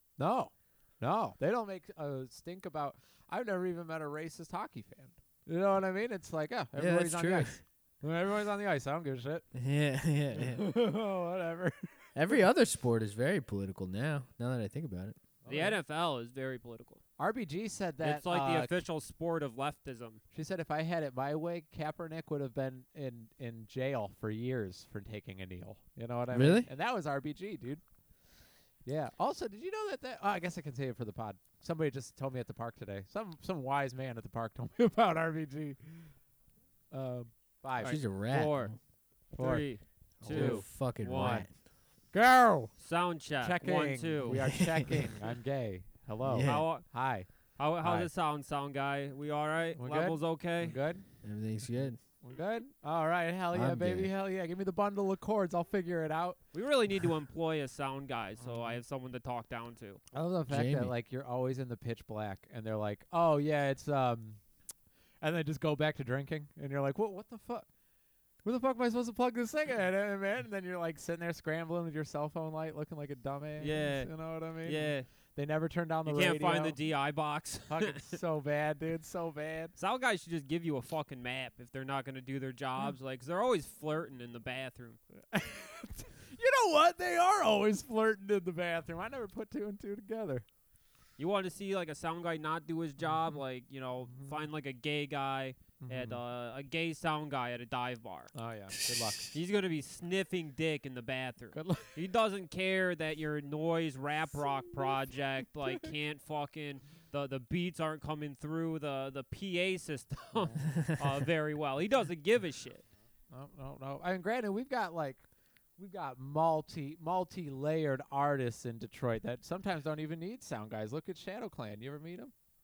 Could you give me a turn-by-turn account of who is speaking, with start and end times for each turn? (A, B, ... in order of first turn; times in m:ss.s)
0:00.2-0:09.4 A
0:06.7-0:07.6 B
0:09.5-0:10.6 B
0:10.3-0:12.1 A
0:12.1-0:15.2 B
0:15.4-0:15.8 A
0:15.5-0:17.0 C
0:17.2-0:18.7 A
0:18.0-0:20.2 C
0:20.3-0:27.8 A
0:26.3-0:26.7 B
0:28.8-0:36.1 A
0:36.9-0:38.0 A
0:37.8-0:38.7 C
0:37.8-0:38.8 B
0:39.3-0:41.4 C
0:39.3-0:39.7 A
0:40.2-0:41.5 B
0:40.2-0:40.6 A
0:42.1-0:42.7 A
0:42.8-0:44.5 C
0:43.4-0:47.3 A
0:44.3-0:44.6 B
0:46.2-0:46.7 B
0:46.4-0:46.9 C
0:47.6-0:50.8 C
0:47.8-0:48.1 A
0:49.8-0:51.0 A
0:51.2-0:52.0 B
0:52.2-0:56.4 A
0:53.5-0:54.1 B
0:56.5-1:00.0 C
0:58.4-0:58.8 A
1:00.1-1:04.4 A
1:00.5-1:00.9 B
1:05.2-1:07.7 A
1:08.4-1:16.8 A
1:13.6-1:15.1 C
1:16.0-1:18.1 C
1:17.7-1:19.7 A
1:19.8-1:25.0 C
1:25.3-1:30.4 A
1:31.2-1:38.3 C
1:34.1-1:34.4 A
1:35.8-1:36.2 A
1:38.3-1:39.3 A
1:38.8-1:39.3 B
1:39.3-1:52.8 C
1:41.5-1:42.0 A
1:53.3-1:55.2 A
1:55.8-2:02.3 A